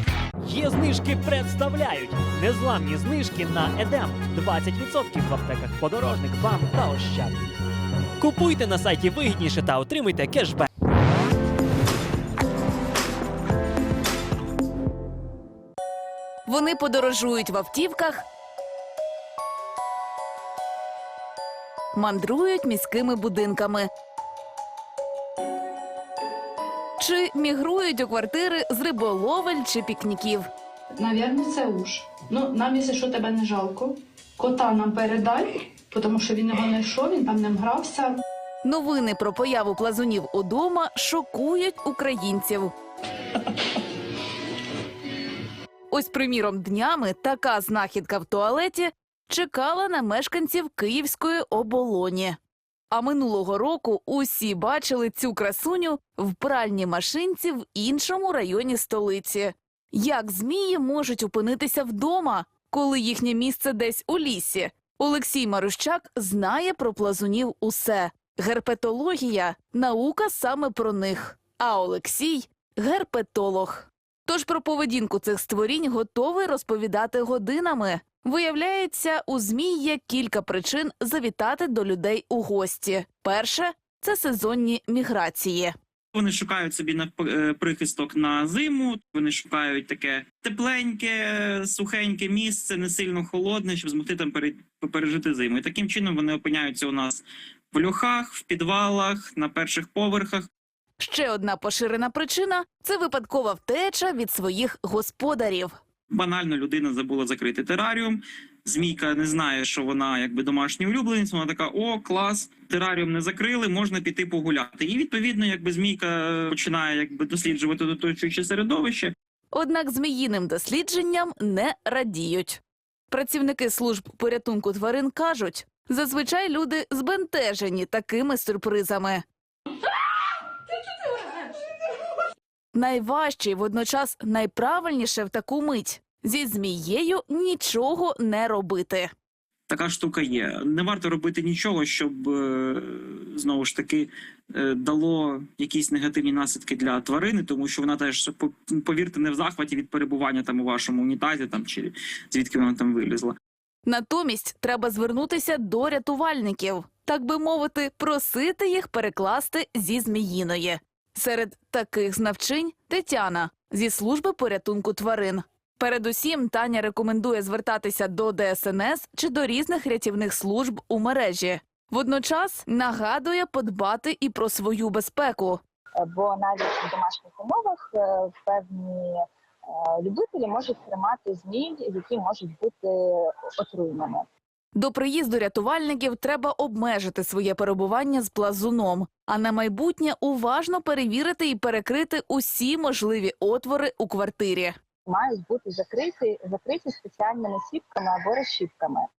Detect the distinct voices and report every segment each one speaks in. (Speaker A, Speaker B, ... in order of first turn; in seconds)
Speaker A: 0.4-7.4, 8.2-10.7
Speaker B: 16.4-18.2, 21.9-23.9, 27.0-30.5, 38.6-42.7, 45.9-52.4, 52.9-85.7, 101.0-105.7, 119.5-129.2, 132.7-139.1, 153.8-175.6, 184.8-194.7
Speaker C: 31.0-38.2
Speaker D: 86.1-100.5, 106.1-119.1, 139.7-153.3
Speaker E: 176.0-179.2, 179.8-184.2, 195.1-199.1